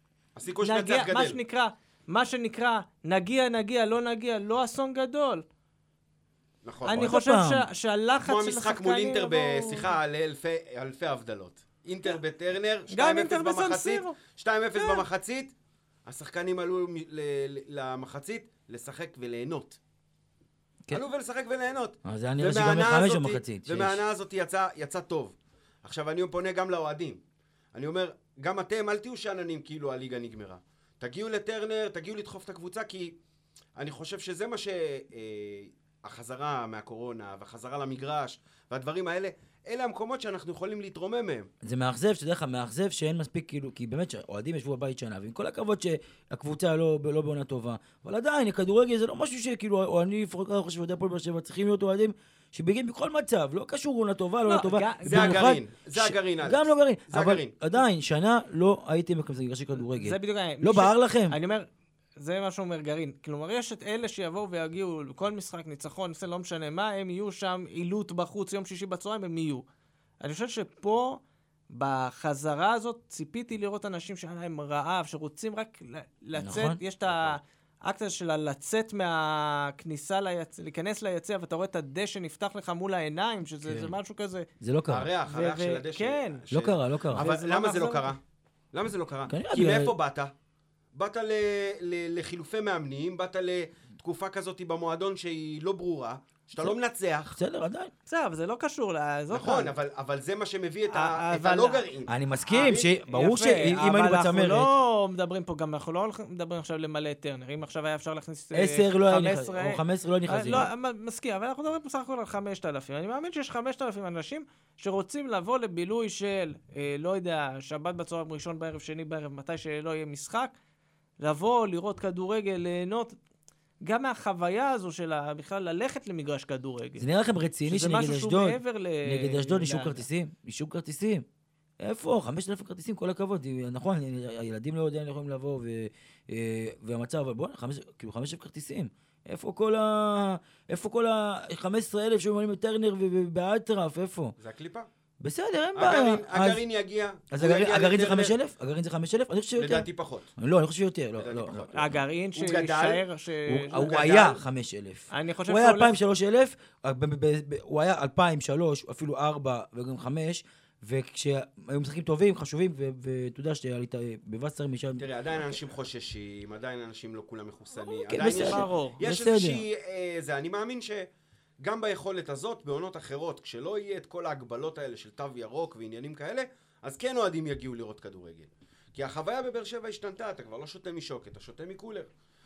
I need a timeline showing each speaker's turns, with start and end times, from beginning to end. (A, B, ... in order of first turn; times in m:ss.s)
0:00.4-0:01.4 A
0:00.6-0:05.4 B
0:06.6-0:07.1 A
0:06.8-0:09.8 B
0:07.0-0:07.6 C
0:08.2-0:15.5 A
0:12.9-0:14.2 B
0:14.7-0:15.0 B
0:16.0-0:19.8 A
0:20.9-0:27.2 A
0:22.0-0:24.0 C
0:27.7-0:33.2 A
0:33.8-0:41.5 A
0:41.6-1:01.3 C
0:54.4-0:55.4 B
0:55.0-0:57.8 A
0:59.9-1:09.6 B
1:10.2-1:24.5 B
1:16.4-1:16.8 C
1:23.6-1:23.9 C
1:24.6-1:25.1 C
1:24.9-1:28.2 A
1:25.3-1:26.4 B
1:26.5-1:27.2 C
1:27.1-1:28.1 B
1:28.7-1:30.3 A
1:29.3-1:29.9 C
1:30.9-1:37.4 A
1:37.3-1:37.9 C
1:38.1-1:39.7 B
1:39.3-1:42.8 A
1:40.9-1:41.8 B
1:42.1-1:44.7 C
1:42.4-2:00.5 B
1:48.5-1:50.7 C
2:01.2-2:03.2 B
2:03.8-2:07.1 B
2:07.0-2:11.2 C
2:07.6-2:10.0 B
2:11.8-2:24.3 C
2:24.4-2:24.9 A
2:25.2-2:26.6 C
2:25.8-2:28.3 A
2:27.3-2:29.8 C
2:29.6-2:30.3 A
2:30.4-2:32.0 C
2:31.2-2:33.0 A
2:31.7-2:33.9 B
2:33.5-2:45.0 C
2:33.7-2:34.4 A
2:35.1-2:36.0 B
2:45.0-2:51.1 A
2:47.8-2:49.6 C
2:48.2-2:49.0 B
2:51.6-3:02.1 A